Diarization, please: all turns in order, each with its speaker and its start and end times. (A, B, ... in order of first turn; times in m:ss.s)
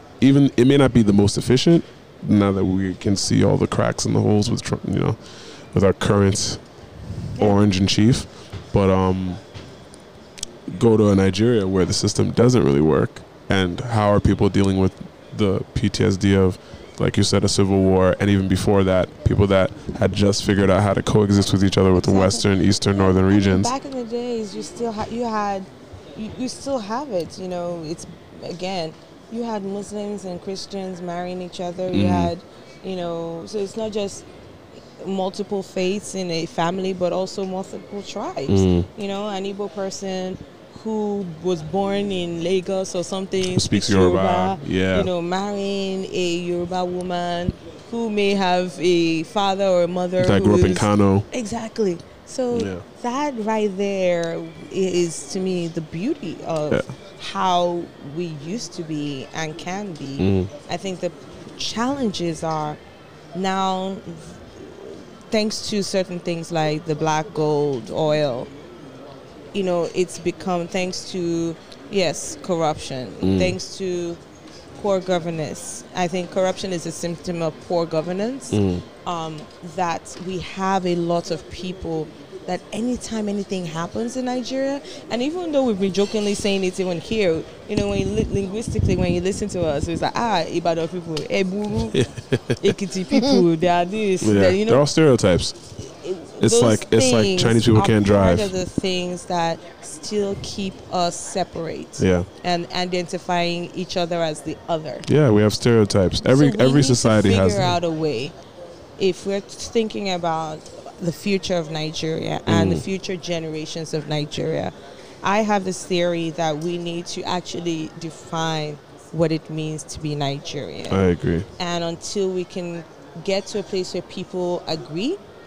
0:00.2-0:05.2 A
0:05.7-0:06.6 A
0:07.4-0:09.4 A
0:10.7-0:23.7 A
0:22.0-0:34.3 B
0:31.9-0:32.3 A
0:35.0-1:02.8 B
0:38.5-0:38.9 A
0:43.5-0:45.1 A
0:50.2-0:51.3 A
0:52.5-0:52.8 A
1:00.2-1:00.5 A
1:03.3-1:08.5 B
1:09.5-1:14.2 B
1:13.2-1:13.6 A
1:14.8-1:32.0 B
1:18.5-1:18.8 A
1:31.9-1:32.8 A
1:32.6-1:34.8 B
1:34.2-1:35.6 A
1:35.9-1:45.1 B
1:36.4-1:38.5 A
1:42.0-1:42.3 A
1:45.1-1:47.8 A
1:46.2-1:48.4 B
1:49.0-2:01.0 B
1:52.5-1:52.9 A
2:00.9-2:01.5 A
2:01.6-2:05.2 B